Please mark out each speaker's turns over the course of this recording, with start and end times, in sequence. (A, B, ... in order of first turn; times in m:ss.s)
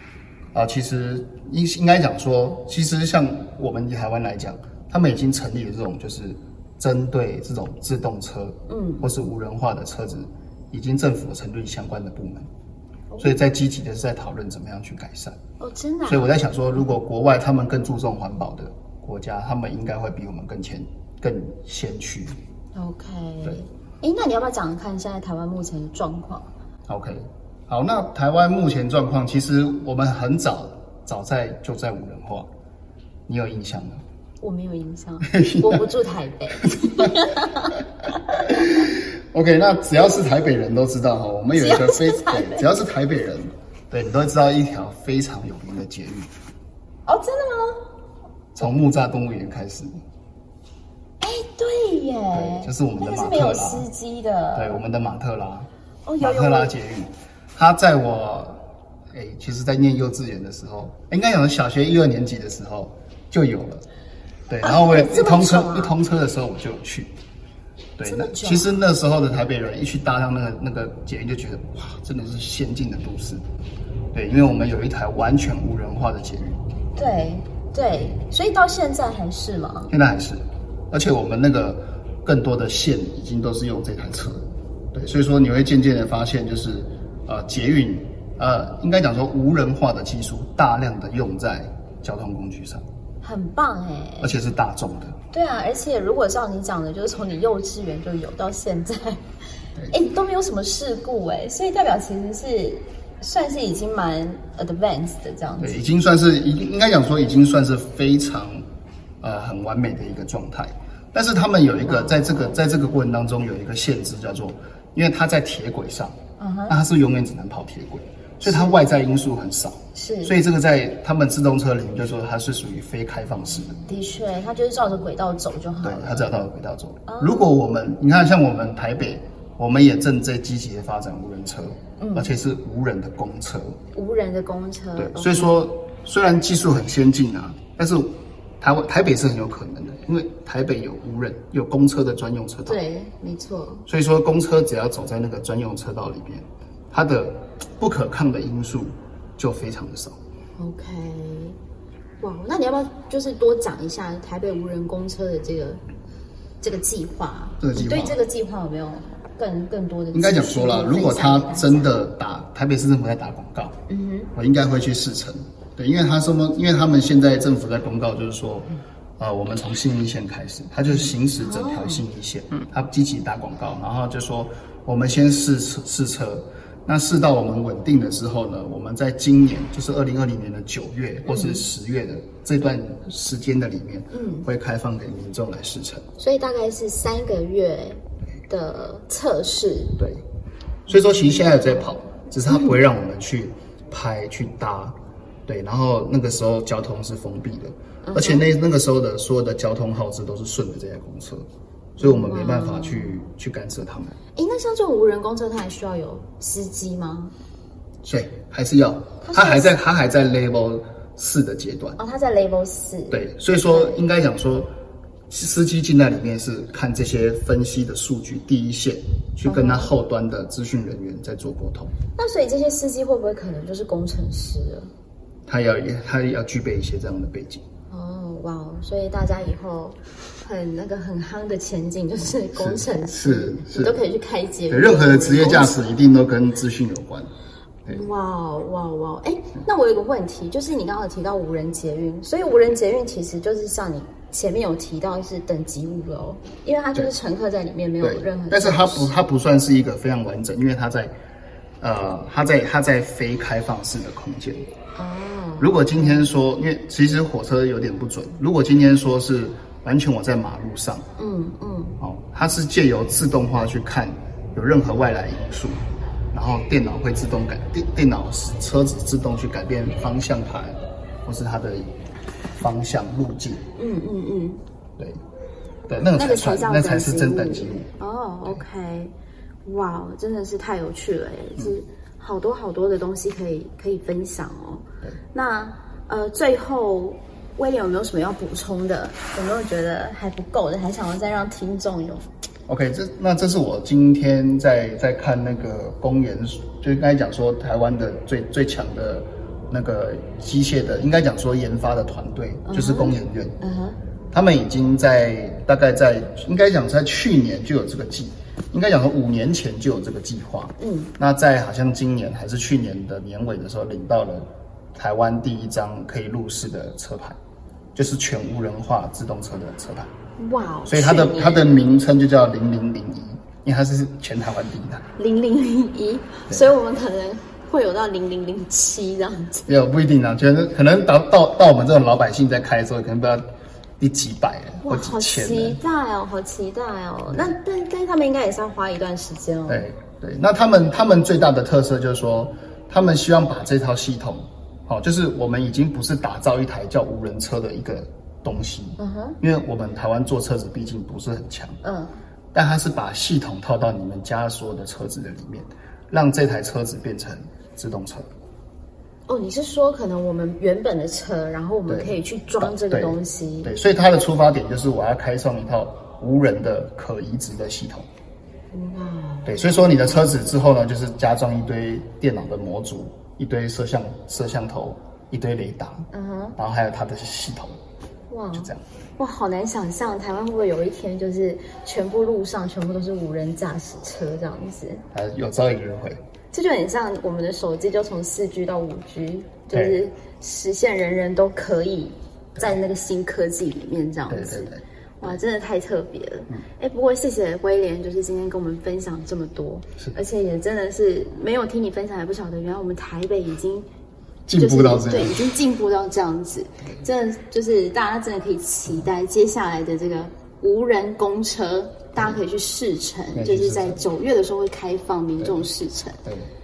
0:00.5-0:12.5 A
0:08.7-0:09.0 B
0:13.1-0:13.4 B
0:13.2-0:15.4 A
0:15.6-0:16.3 B
0:16.1-0:22.4 A
0:22.8-0:26.5 B
0:26.9-0:32.5 A
0:33.3-0:34.0 A
0:34.4-0:37.8 B
0:35.3-0:35.8 A
0:36.6-0:37.3 A
0:38.4-0:38.7 B
0:38.5-0:46.3 A
0:41.5-0:42.7 B
0:47.1-0:47.8 B
0:48.6-0:50.0 A
0:51.2-0:54.8 B
0:52.3-0:53.9 A
0:54.6-0:55.7 A
0:56.1-0:56.7 B
0:56.2-1:03.8 A
1:04.5-1:07.1 A
1:04.6-1:06.0 B
1:08.0-1:13.4 A
1:08.0-1:08.7 B
1:14.1-1:16.6 A
1:17.0-1:19.9 B
1:19.9-1:32.8 A
1:33.2-1:34.4 B
1:34.2-1:35.2 A
1:35.3-1:39.2 B
1:39.9-1:45.8 B
1:45.6-1:48.6 A
1:49.2-1:56.2 A
1:52.1-1:52.4 B
1:56.4-1:56.8 B
1:56.7-2:03.8 A
1:58.4-1:58.9 B
2:00.0-2:00.3 B
2:03.9-2:06.4 B
2:05.8-2:13.8 A
2:07.1-2:07.5 B
2:12.0-2:12.3 B
2:13.9-2:15.6 B
2:15.0-2:22.8 A
2:22.6-2:23.9 B
2:23.9-2:30.2 A
2:30.6-2:31.6 B
2:32.2-2:35.8 B
2:36.6-2:41.9 B
2:37.6-2:38.2 A
2:40.1-2:43.8 A
2:43.9-2:44.3 B
2:44.4-3:06.0 A
2:51.0-2:52.0 B
3:01.2-3:01.7 B
3:04.1-3:04.5 B
3:06.2-3:10.0 B
3:10.0-3:10.2 A
3:10.9-3:21.5 A
3:10.9-3:11.9 B
3:12.4-3:12.8 B
3:18.0-3:18.5 B
3:22.0-3:24.2 A
3:22.0-3:23.2 B
3:24.4-3:27.3 B
3:28.0-3:32.0 A
3:29.2-3:29.8 B
3:32.0-3:34.0 B
3:33.1-3:34.7 A
3:35.3-3:41.9 A
3:39.5-3:39.9 B
3:42.2-3:44.9 B
3:45.5-3:47.6 A
3:47.9-3:55.9 B
3:52.6-3:54.0 A
3:54.7-3:57.3 A
3:57.9-4:09.1 B
4:08.0-4:11.1 A
4:11.8-4:14.7 A
4:15.0-4:16.3 B
4:15.6-4:21.1 A
4:21.2-4:22.0 B
4:22.0-4:25.8 A
4:26.3-4:31.9 A
4:32.6-4:33.6 A
4:33.8-4:34.6 B
4:35.9-4:37.9 A
4:36.1-4:39.1 B
4:39.6-4:52.3 B
4:52.7-5:03.6 A
5:02.6-5:04.0 B
5:04.3-5:17.4 A
5:10.8-5:11.1 B
5:18.0-5:20.1 A
5:20.4-5:21.7 B
5:20.9-5:25.0 A
5:25.2-5:29.7 B
5:29.7-5:33.5 A
5:34.0-5:35.8 A
5:34.8-5:39.9 B
5:39.7-5:51.8 A
5:49.0-5:49.4 B
5:51.8-5:52.1 B
5:52.5-5:58.3 A
5:59.3-6:03.7 B
6:01.9-6:08.1 A
6:08.7-6:10.3 B
6:09.5-6:16.1 A
6:16.1-6:16.6 B
6:16.6-6:17.8 A
6:18.3-6:25.0 B
6:18.5-6:18.8 A
6:25.1-6:26.2 A
6:26.5-6:43.9 B
6:29.7-6:30.0 A
6:34.3-6:35.4 A
6:44.5-6:45.5 A
6:44.5-6:56.2 B
6:53.3-6:54.0 A
6:55.4-6:55.7 A
6:56.2-6:56.5 A